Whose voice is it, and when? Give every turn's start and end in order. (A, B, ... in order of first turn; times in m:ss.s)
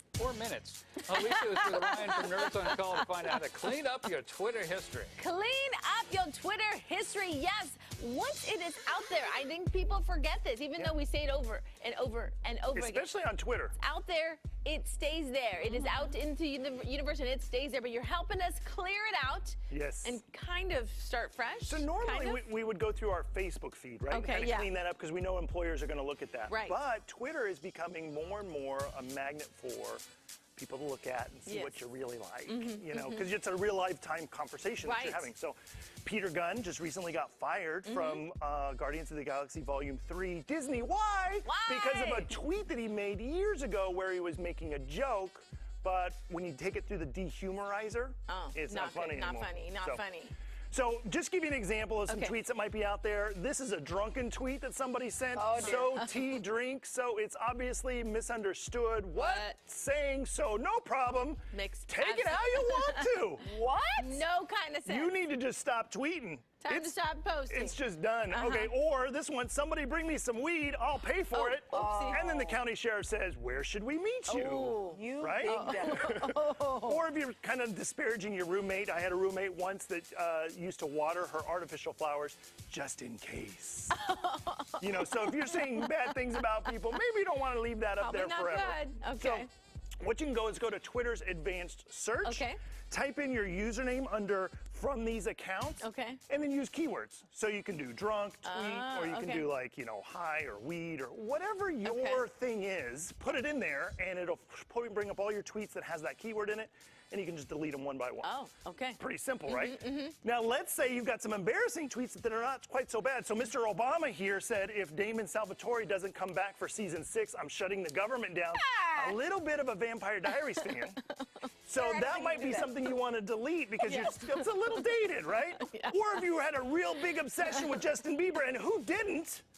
0:00.2-0:05.2 A
0:01.2-0:03.1 B
0:05.2-0:13.2 B
0:12.7-0:13.8 C
0:13.8-0:22.5 B
0:19.7-0:20.2 C
0:21.7-0:30.0 C
0:24.1-0:24.8 B
0:26.5-0:26.8 B
0:30.6-0:50.0 C
0:31.5-0:31.8 B
0:32.5-0:33.3 B
0:34.8-0:35.3 B
0:37.8-0:38.2 B
0:41.4-0:42.4 B
0:48.3-0:50.3 B
0:50.7-1:03.5 C
0:52.1-0:52.4 B
0:55.3-0:56.0 D
0:55.6-0:56.1 B
0:59.1-0:59.6 B
1:01.5-1:03.3 B
1:03.4-1:04.2 D
1:04.0-1:05.2 B
1:04.9-1:24.1 C
1:06.6-1:07.8 B
1:08.3-1:08.8 B
1:11.3-1:12.3 B
1:11.7-1:12.6 D
1:14.3-1:17.0 B
1:14.8-1:16.2 D
1:23.9-1:27.0 B
1:24.8-1:29.5 C
1:28.0-1:29.5 B
1:30.0-1:48.3 C
1:32.2-1:32.6 B
1:35.8-1:36.2 B
1:38.4-1:39.5 B
1:41.8-1:42.2 B
1:48.2-1:50.2 B
1:49.0-2:01.0 C
1:58.6-1:59.2 D
2:01.6-2:09.4 C
2:01.8-2:02.7 D
2:01.8-2:02.7 B
2:03.8-2:06.3 B
2:07.4-2:07.8 B